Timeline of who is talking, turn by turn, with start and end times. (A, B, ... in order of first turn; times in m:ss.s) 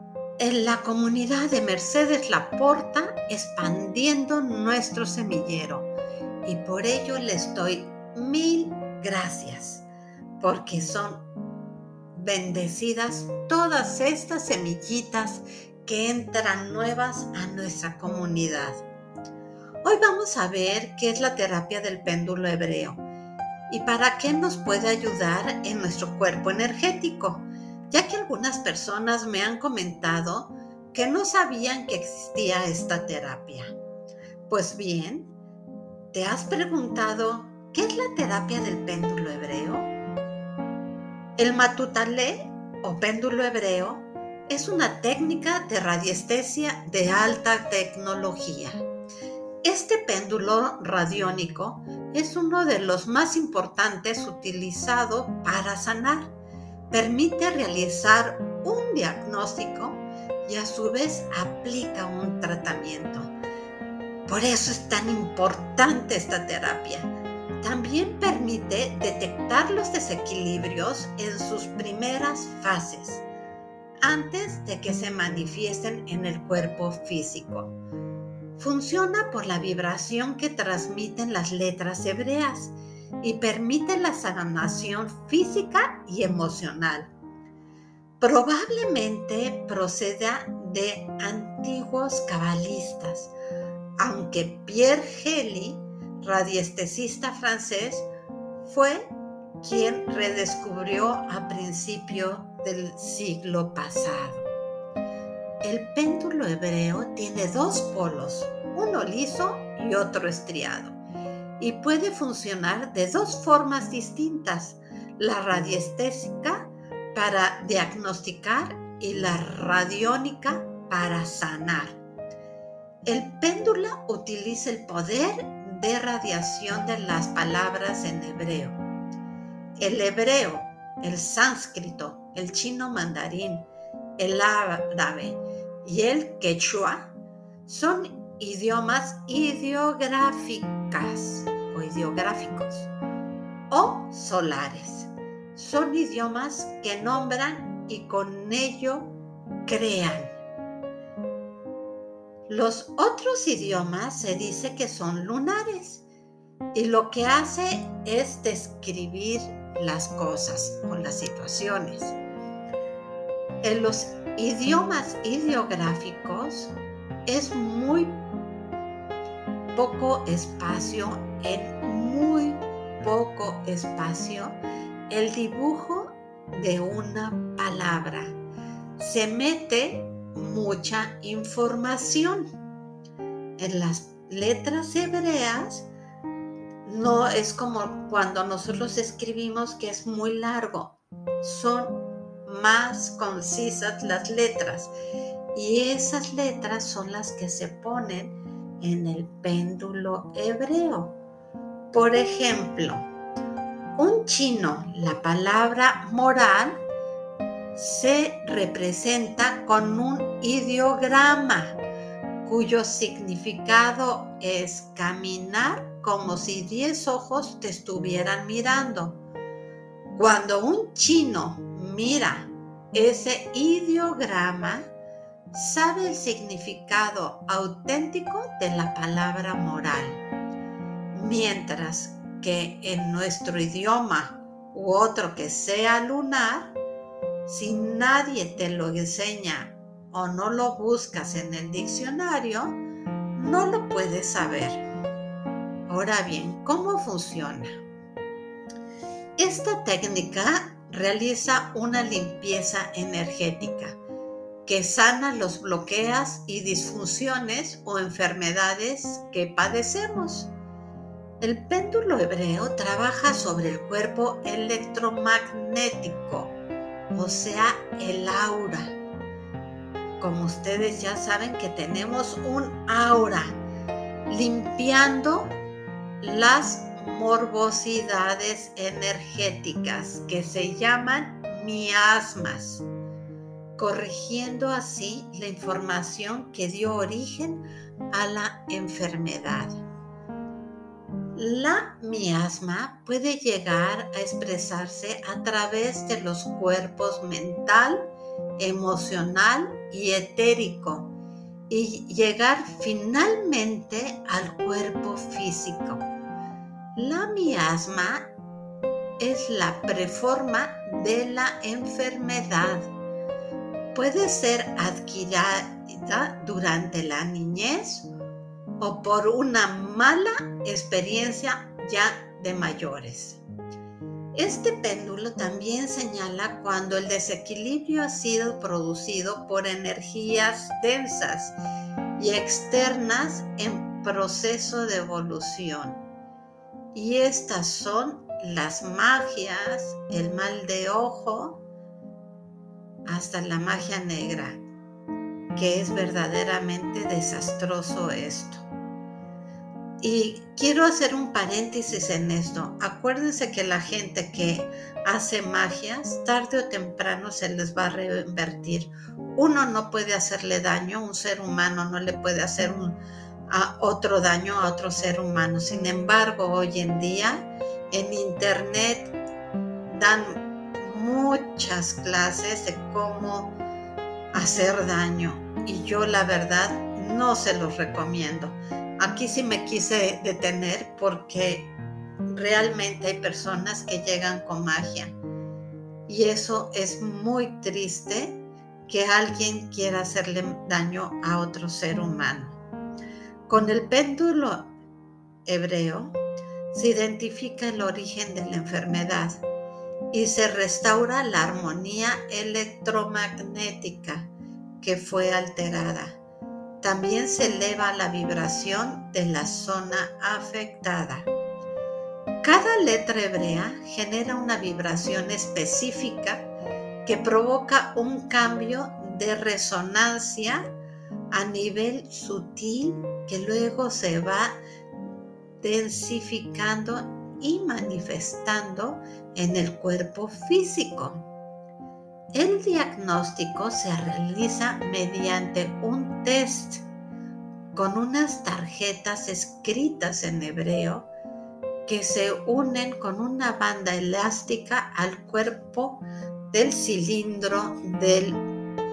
0:00.4-0:05.9 A
0:06.4-0:09.9 A
0:10.4-0:11.2 A
0:12.1-0:18.8 A
0:19.8-0:23.0 A
0:23.7-0:33.7 A
0:34.5-0:35.3 A
0:36.1-0:39.9 A
0:41.4-0:48.8 A
0:49.6-0:56.3 A
0:56.9-1:03.3 A
1:04.2-1:13.2 A
1:14.0-1:17.7 A
1:18.6-1:27.1 A
1:28.2-1:33.3 A
1:34.0-1:38.1 A
1:38.6-1:44.5 A
1:45.6-1:51.0 A
1:51.6-2:02.0 A
2:03.0-2:08.8 A
2:09.8-2:13.7 A
2:14.2-2:17.1 A
2:17.6-2:22.9 A
2:23.7-2:29.1 A
2:29.6-2:30.4 A
2:32.5-2:36.0 A
2:36.7-2:42.2 A
2:43.6-2:46.7 A
2:47.3-2:48.2 A
2:49.7-2:58.4 A
2:59.0-3:02.5 A
3:03.6-3:05.9 A
3:06.8-3:14.9 A
3:15.5-3:21.2 A
3:21.9-3:23.1 A
3:24.0-3:26.8 A
3:27.7-3:31.8 A
3:32.4-3:39.2 A
3:40.1-3:44.9 A
3:45.5-3:50.2 A
3:51.1-3:56.8 A
3:57.4-4:02.8 A
4:03.3-4:04.8 A
4:05.9-4:07.8 A
4:09.4-4:14.0 A
4:14.6-4:20.5 A
4:21.4-4:26.6 A
4:27.1-4:28.9 A
4:30.2-4:33.6 A
4:34.3-4:35.5 A
4:36.2-4:42.8 A
4:43.8-4:49.8 A
4:51.3-5:01.1 A
5:01.7-5:06.0 A
5:07.0-5:08.3 A
5:09.2-5:12.9 A
5:13.9-5:18.1 A
5:18.8-5:23.4 A
5:24.4-5:31.6 A
5:32.2-5:36.0 A
5:36.9-5:41.6 A
5:43.1-5:44.6 A
5:45.5-5:48.6 A
5:50.0-6:03.0 A
6:03.5-6:09.1 A
6:09.9-6:13.6 A
6:14.3-6:21.7 A
6:22.3-6:25.1 A
6:26.1-6:32.6 A
6:33.5-6:34.7 A
6:35.4-6:36.2 A
6:36.7-6:39.4 A
6:40.1-6:44.3 A
6:44.8-6:46.2 A
6:46.8-6:51.3 A
6:52.4-6:56.5 A
6:57.0-7:00.7 A
7:01.3-7:04.6 A
7:05.6-7:11.3 A
7:12.3-7:16.8 A
7:17.7-7:21.1 A
7:21.8-7:28.4 A